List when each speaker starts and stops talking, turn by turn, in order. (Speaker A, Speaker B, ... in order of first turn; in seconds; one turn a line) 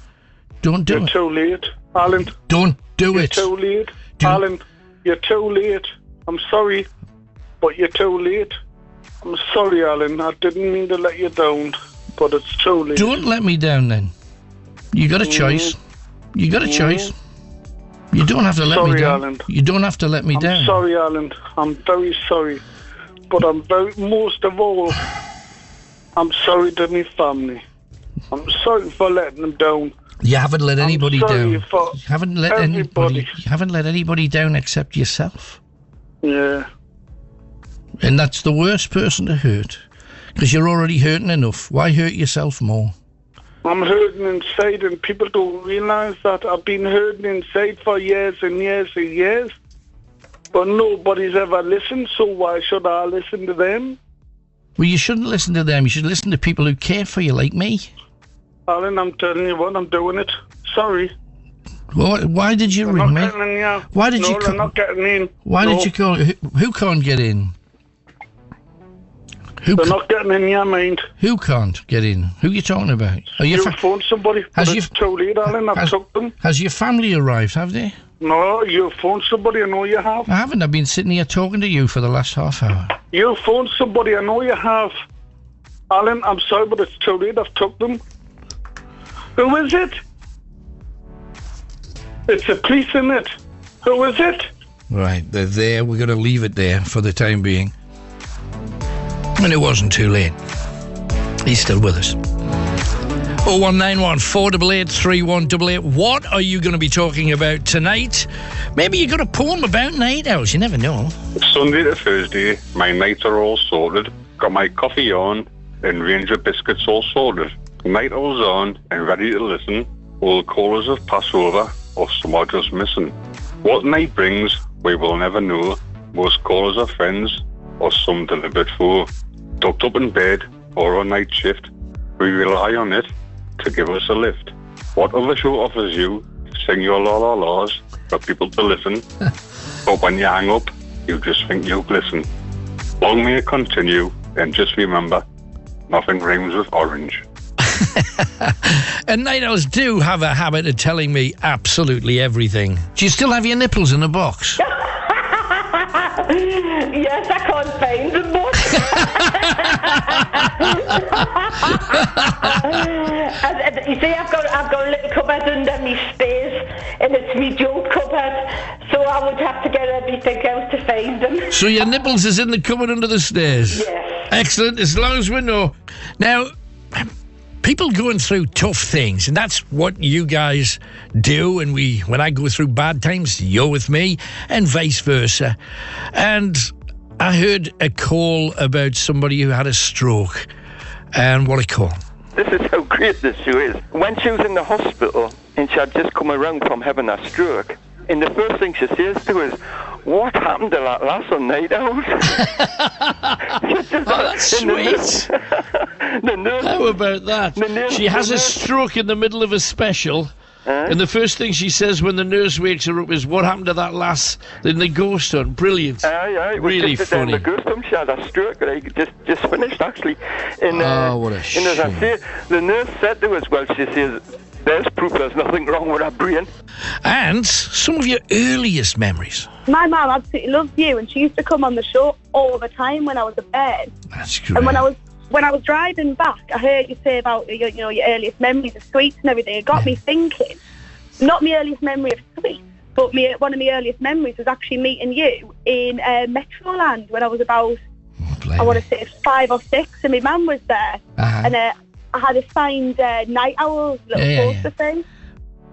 Speaker A: 0.6-1.1
Speaker B: 0.9-2.4
Speaker A: 2.5-3.5
Speaker B: 3.1-6.9
Speaker A: 4.2-4.4
Speaker B: 7.6-8.6
Speaker B: 9.2-13.1
Speaker A: 12.9-14.1
Speaker A: 14.9-15.8
Speaker B: 15.2-15.8
Speaker A: 16.4-17.1
Speaker B: 16.6-17.1
Speaker A: 18.1-20.8
Speaker B: 18.6-19.5
Speaker B: 20.3-22.6
Speaker B: 23.3-25.0
Speaker B: 26.2-27.6
Speaker B: 28.3-29.9
Speaker A: 30.2-35.6
Speaker B: 30.8-33.3
Speaker B: 36.2-36.7
Speaker A: 38.0-42.9
Speaker B: 43.6-49.5
Speaker B: 50.5-54.0
Speaker A: 54.8-57.9
Speaker B: 58.7-61.1
Speaker A: 61.9-63.4
Speaker B: 62.8-65.9
Speaker A: 63.9-64.7
Speaker A: 65.5-67.5
Speaker A: 69.6-70.0
Speaker B: 69.8-71.1
Speaker A: 71.2-73.8
Speaker B: 73.5-76.3
Speaker A: 74.5-74.9
Speaker A: 75.5-78.0
Speaker B: 78.2-80.3
Speaker A: 80.3-82.9
Speaker B: 83.1-85.0
Speaker B: 85.9-88.0
Speaker B: 89.4-90.0
Speaker B: 92.3-94.5
Speaker A: 94.9-97.7
Speaker A: 99.4-100.4
Speaker A: 101.4-102.2
Speaker A: 103.4-111.2
Speaker C: 111.4-129.1
Speaker C: 129.6-139.1
Speaker C: 139.9-142.3
Speaker C: 143.0-145.2
Speaker C: 145.9-147.2
Speaker A: 147.8-154.6
Speaker D: 156.3-159.0
Speaker A: 159.1-159.7
Speaker D: 160.6-161.8
Speaker A: 161.9-162.7
Speaker D: 162.7-171.5
Speaker A: 171.5-177.1
Speaker D: 173.7-174.2
Speaker A: 177.6-185.6
Speaker A: 186.1-190.5
Speaker A: 191.1-192.0
Speaker E: 192.3-202.5
Speaker A: 203.1-203.4
Speaker E: 203.5-207.0
Speaker A: 204.1-205.3
Speaker A: 206.6-210.3
Speaker E: 207.5-208.6
Speaker E: 210.7-211.0
Speaker A: 210.9-217.5
Speaker E: 216.0-226.5
Speaker A: 220.7-222.1
Speaker A: 227.0-229.5
Speaker F: 229.7-233.9
Speaker A: 234.2-234.8
Speaker F: 234.6-240.5
Speaker F: 241.2-247.8
Speaker A: 248.3-248.8
Speaker F: 248.6-255.0
Speaker A: 251.2-251.5
Speaker A: 254.2-254.7